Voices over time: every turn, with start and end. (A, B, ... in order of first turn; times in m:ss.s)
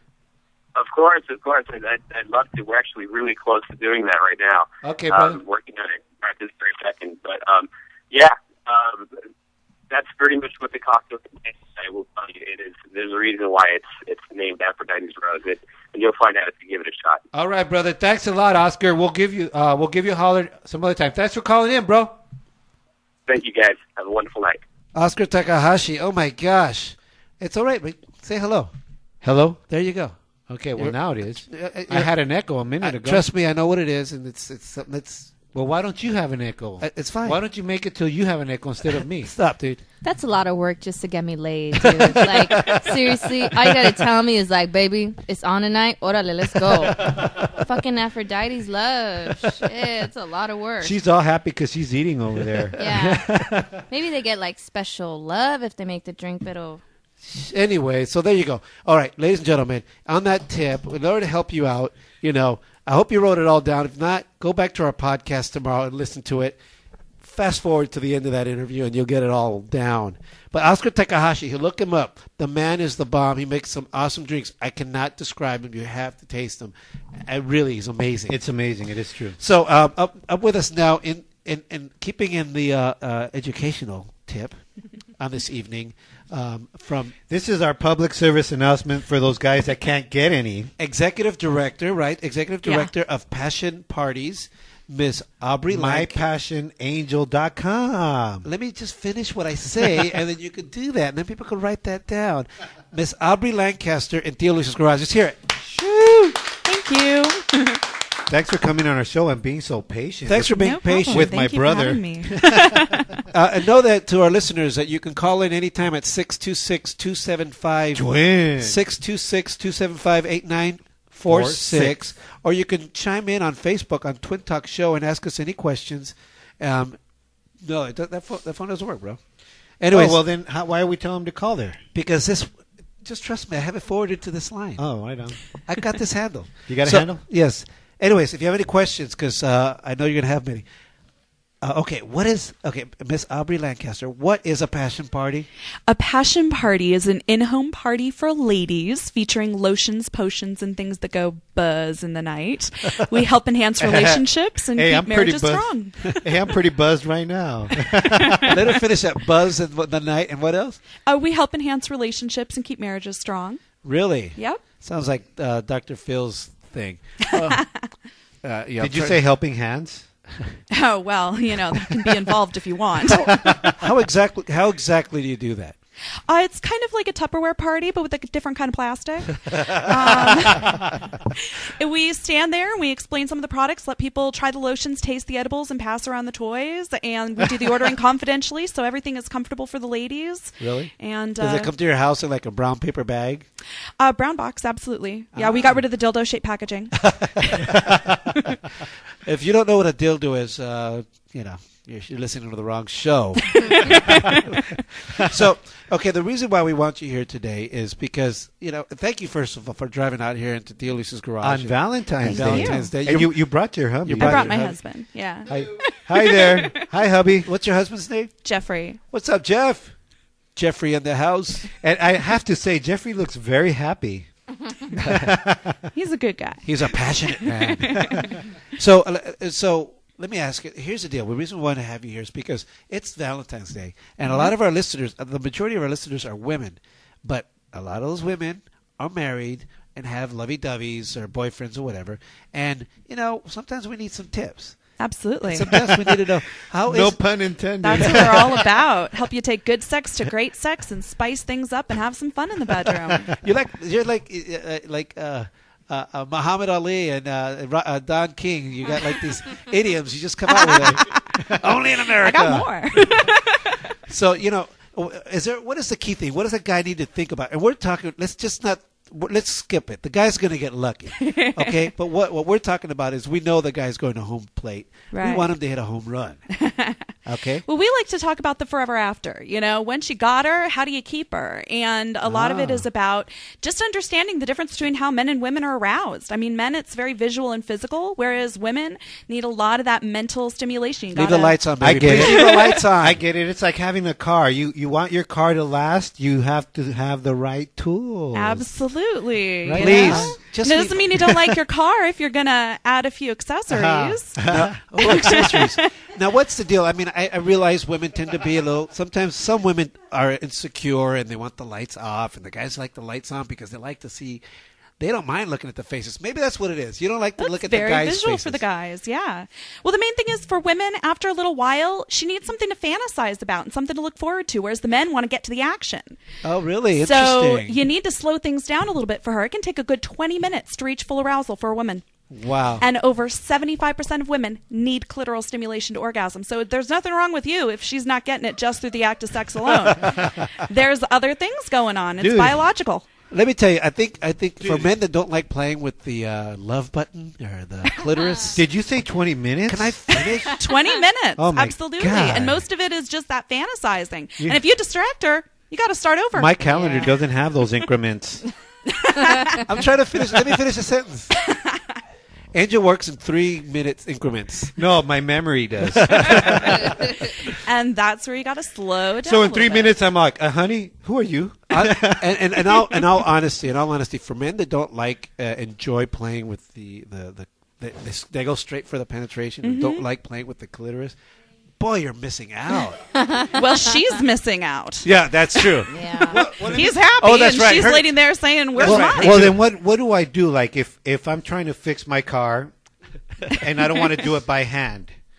0:00.8-0:09.1 A
0:04.8-0:05.4 B
0:09.9-0:17.2 A
0:17.3-0:22.2 B
0:23.3-0:24.6 A
0:25.0-0:28.7 C
0:29.2-0:29.6 B
0:29.6-0:32.1 C
0:30.7-0:33.3 B
0:32.8-0:35.4 C
0:35.5-0:39.3 B
0:36.8-0:37.4 C
0:39.0-0:39.8 C
0:40.0-0:47.1 D
0:41.8-0:42.9 C
0:47.6-0:51.0 D
0:50.8-0:53.7 B
0:52.8-0:53.3 D
0:53.9-0:56.8 D
0:57.2-1:06.6 C
1:07.2-1:16.7 C
1:17.3-1:18.4 C
1:18.3-1:19.4 B
1:19.4-1:24.6 C
1:25.2-1:27.1 C
1:27.3-1:30.7 B
1:30.8-1:36.2 C
1:32.6-1:32.9 E
1:35.7-1:38.5 B
1:38.4-1:46.3 C
1:46.7-1:47.8 E
1:48.3-1:53.0 B
1:50.3-1:51.4 C
1:50.5-1:53.2 E
1:53.3-1:58.1 C
1:57.9-1:58.8 B
1:58.6-2:07.0 C
2:01.3-2:02.0 B
2:07.6-2:09.2 C
2:09.8-2:10.2 C
2:09.9-2:11.8 B
2:12.0-2:12.5 C
2:13.0-2:14.8 C
2:14.8-2:15.4 B
2:15.7-2:20.6 C
2:16.7-2:17.2 B
2:21.6-2:25.5 C
2:25.9-2:36.2 E
2:34.8-2:38.6 B
2:38.5-2:40.8 C
2:41.1-2:43.6 E
2:43.8-2:47.6 C
2:44.4-2:44.6 E
2:47.5-2:47.9 E
2:48.4-2:49.2 C
2:48.8-2:50.1 B
2:50.7-2:53.4 E
2:53.2-2:53.7 B
2:53.3-2:55.8 C
2:56.3-3:00.7 E
3:01.8-3:11.7 E
3:10.6-3:13.5 C
3:14.0-3:16.9 E
3:15.4-3:15.8 C
3:17.0-3:17.9 C
3:19.3-3:24.6 C
3:23.6-3:24.4 E
3:25.1-3:33.4 C
3:31.4-3:34.6 B
3:32.3-3:32.9 E
3:34.0-3:34.8 C
3:34.2-3:36.8 E
3:35.5-3:37.5 B
3:37.5-3:38.3 C
3:38.4-3:39.0 E
3:39.1-3:39.9 C
3:40.6-3:41.7 C
3:41.8-3:44.3 B
3:45.0-3:45.8 B
3:45.0-3:45.4 C
3:46.0-3:46.8 E
3:46.6-3:48.3 C
3:47.3-3:48.3 E
3:48.8-4:04.8 C
3:54.3-3:54.5 E
4:05.0-4:05.7 E
4:05.5-4:07.2 C
4:06.8-4:08.7 B
4:07.8-4:13.3 E
4:07.9-4:08.4 C
4:13.1-4:22.7 C
4:20.6-4:21.2 E
4:22.2-4:23.8 E
4:24.1-4:36.4 C
4:31.2-4:31.7 E
4:35.1-4:35.5 E
4:36.5-4:37.1 E
4:37.3-4:37.7 C
4:37.7-4:51.6 E
4:42.3-4:42.8 C
4:51.1-4:53.2 C
4:51.8-4:58.7 B
4:52.1-4:52.8 E
4:58.3-5:04.4 E
4:59.7-5:00.4 B
4:59.7-5:01.5 C
5:03.7-5:05.5 B
5:04.4-5:14.4 C
5:05.0-5:05.9 E
5:15.0-5:18.6 C
5:17.4-5:26.2 E
5:26.4-5:27.8 C
5:27.0-5:32.0 E
5:32.3-5:32.8 C
5:32.8-5:43.1 E
5:42.2-5:42.6 B
5:43.3-5:48.6 C
5:44.6-5:44.9 B
5:48.5-5:50.1 B
5:49.7-5:50.7 C
5:50.6-5:56.6 E
5:51.4-5:51.7 B
5:51.6-5:52.5 C
5:56.3-5:58.4 B
5:56.7-5:57.1 D
5:59.0-5:59.6 E
5:59.7-6:01.3 C
6:01.5-6:01.8 E
6:02.5-6:04.7 C
6:04.8-6:07.1 B
6:06.0-6:06.9 C
6:07.7-6:09.9 E
6:09.2-6:12.4 B
6:11.7-6:21.2 C
6:19.6-6:20.0 E
6:21.8-6:23.0 C
6:23.2-6:23.7 D
6:23.6-6:25.6 E
6:25.0-6:28.2 C
6:25.9-6:26.4 D
6:26.5-6:26.8 B
6:26.7-6:29.4 E
6:28.8-6:29.6 C
6:28.8-6:32.7 B
6:33.6-6:35.2 B